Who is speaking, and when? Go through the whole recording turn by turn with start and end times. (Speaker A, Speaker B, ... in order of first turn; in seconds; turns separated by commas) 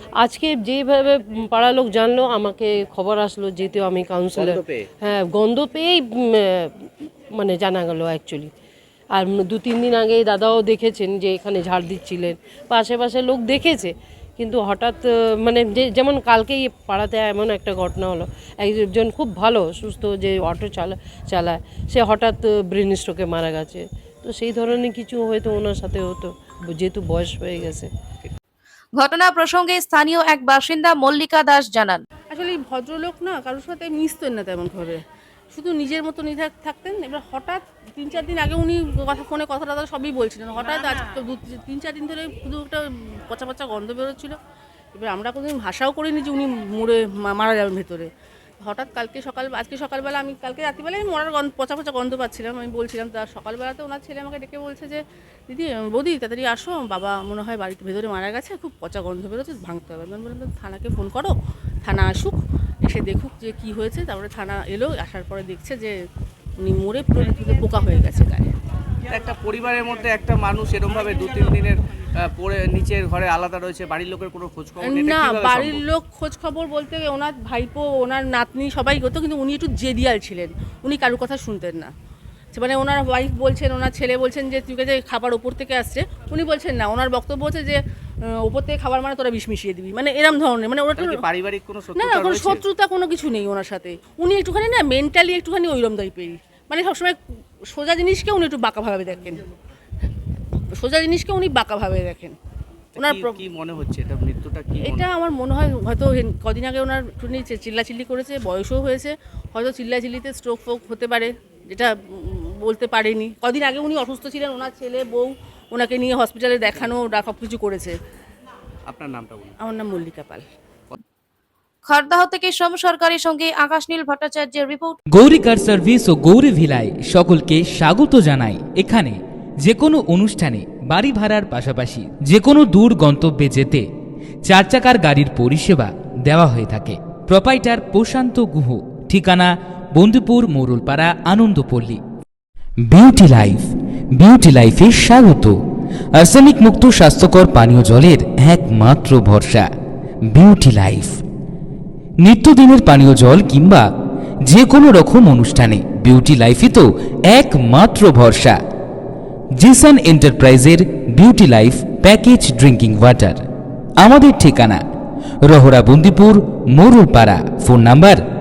Speaker A: 0.2-8.5, Speaker B: 4.3-4.8, Speaker A: 9.1-27.9, Speaker C: 29.0-32.0, Speaker D: 32.3-35.0, Speaker D: 35.5-44.4, Speaker D: 44.9-48.1, Speaker D: 48.6-65.9, Speaker D: 66.6-68.5, Speaker B: 69.1-75.8, Speaker D: 74.8-81.9, Speaker D: 82.5-91.2, Speaker B: 91.0-92.6, Speaker D: 91.9-97.2, Speaker D: 97.7-99.4, Speaker D: 100.8-102.3, Speaker B: 102.9-105.0, Speaker D: 103.0-103.4, Speaker D: 104.8-117.9, Speaker B: 118.9-119.5, Speaker D: 119.6-120.5, Speaker C: 121.9-125.0, Speaker E: 125.1-133.9, Speaker E: 134.4-142.0, Speaker E: 142.8-145.5, Speaker E: 146.2-149.7, Speaker E: 150.3-151.2, Speaker E: 152.2-153.8, Speaker E: 154.5-158.6, Speaker E: 159.6-163.4, Speaker E: 164.0-164.8, Speaker E: 165.4-168.2